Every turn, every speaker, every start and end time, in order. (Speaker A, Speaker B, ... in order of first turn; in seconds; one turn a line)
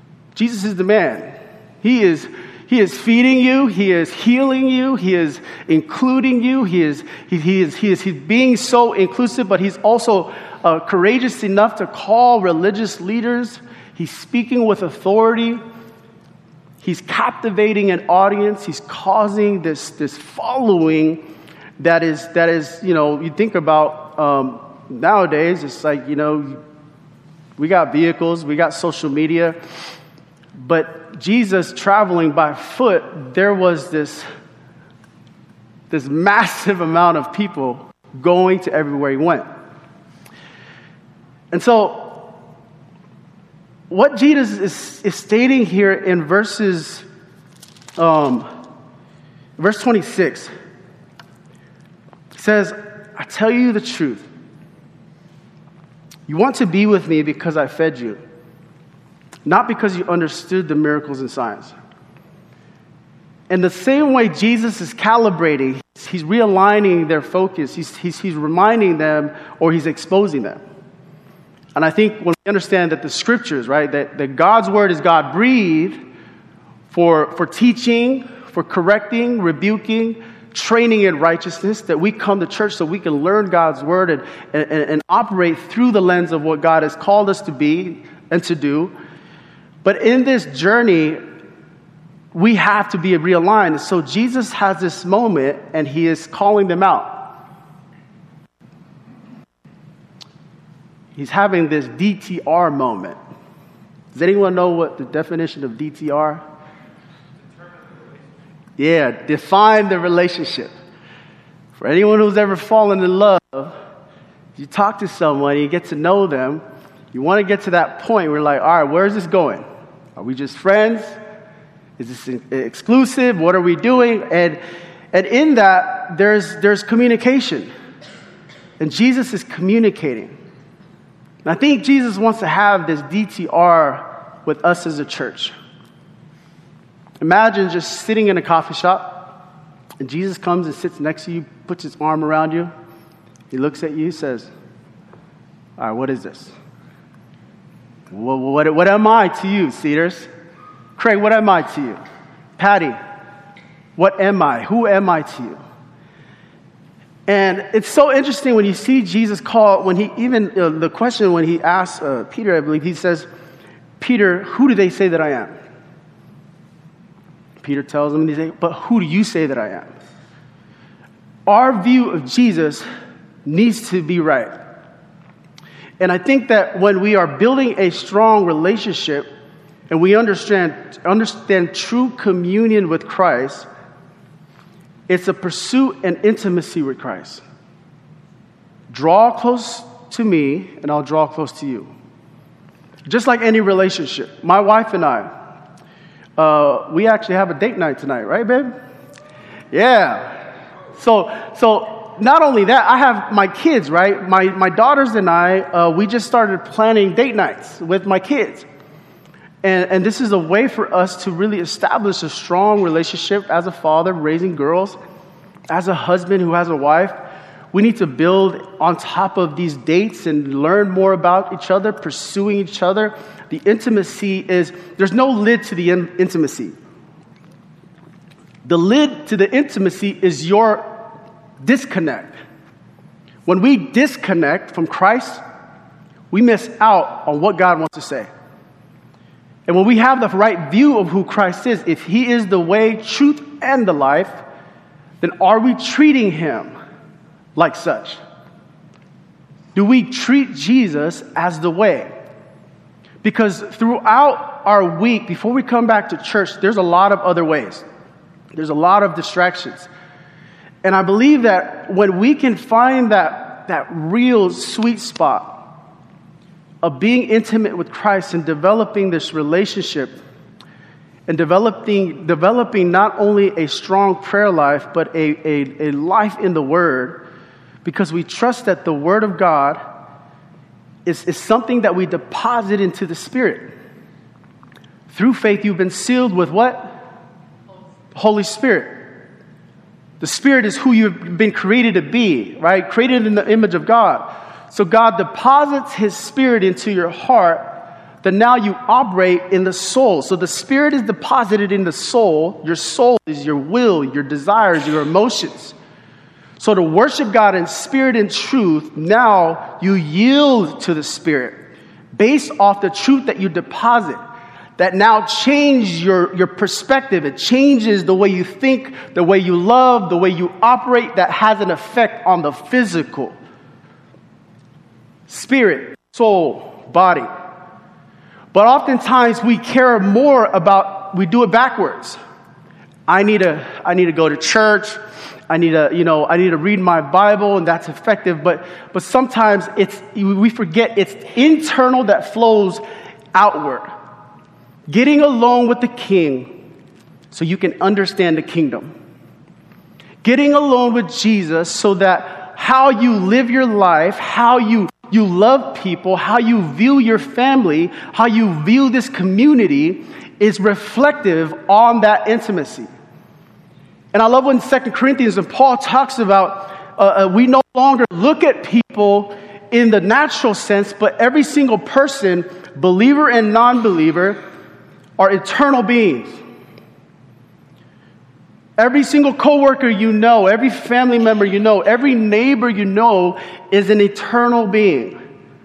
Speaker A: 0.3-15.6
Speaker A: 16.8-21.2
Speaker A: 21.8-26.6
Speaker A: 27.6-29.6
Speaker A: 30.6-34.2
Speaker A: 35.9-39.5
Speaker A: 41.5-42.3
Speaker A: 43.9-47.1
Speaker A: 48.0-48.5
Speaker A: 49.6-50.5
Speaker A: 52.3-54.3
Speaker A: 56.3-58.2
Speaker A: 59.5-61.8
Speaker A: 63.5-70.6
Speaker A: 71.8-76.0
Speaker A: 76.9-88.9
Speaker A: 89.8-91.2
Speaker A: 92.3-97.2
Speaker A: 101.2-103.2
Speaker A: 104.1-106.4
Speaker A: 108.8-110.7
Speaker A: 111.8-113.8
Speaker A: 114.6-119.7
Speaker A: 120.2-121.2
Speaker A: 122.0-124.6
Speaker A: 125.1-127.7
Speaker A: 128.8-130.3
Speaker A: 131.4-135.5
Speaker A: 137.2-139.4
Speaker A: 140.0-142.7
Speaker A: 143.5-144.5
Speaker A: 145.8-146.5
Speaker A: 148.1-150.3
Speaker A: 151.0-152.0
Speaker A: 152.6-153.0
Speaker A: 154.0-155.6
Speaker A: 157.3-163.3
Speaker A: 164.0-165.5
Speaker A: 167.6-169.9
Speaker A: 171.5-172.9
Speaker A: 173.4-174.5
Speaker A: 176.0-179.3
Speaker A: 179.9-183.7
Speaker A: 185.1-187.4
Speaker A: 188.9-191.9
Speaker A: 193.1-195.3
Speaker A: 196.4-198.7
Speaker A: 199.7-200.4
Speaker A: 200.9-208.7
Speaker A: 209.6-215.0
Speaker A: 215.7-217.2
Speaker A: 217.7-226.8
Speaker A: 228.7-231.1
Speaker A: 231.6-232.3
Speaker A: 233.5-235.4
Speaker A: 236.3-238.3
Speaker A: 239.7-244.4
Speaker A: 245.2-246.7
Speaker A: 247.6-248.2
Speaker A: 249.8-252.1
Speaker A: 253.2-257.9
Speaker A: 258.6-259.9
Speaker A: 260.8-265.6
Speaker A: 266.8-270.2
Speaker A: 271.3-277.2
Speaker A: 277.8-279.8
Speaker A: 281.1-283.7
Speaker A: 285.1-287.0
Speaker A: 288.1-289.0
Speaker A: 290.2-297.7
Speaker A: 298.2-305.8
Speaker A: 306.6-311.6
Speaker A: 312.1-314.2
Speaker A: 314.8-323.4
Speaker A: 325.3-327.3
Speaker A: 328.5-332.2
Speaker A: 333.1-335.0
Speaker A: 335.5-342.8
Speaker A: 343.3-343.9
Speaker A: 344.9-346.5
Speaker A: 347.3-348.9
Speaker A: 350.2-362.9
Speaker A: 364.1-374.4
Speaker A: 375.2-376.4
Speaker A: 378.8-385.2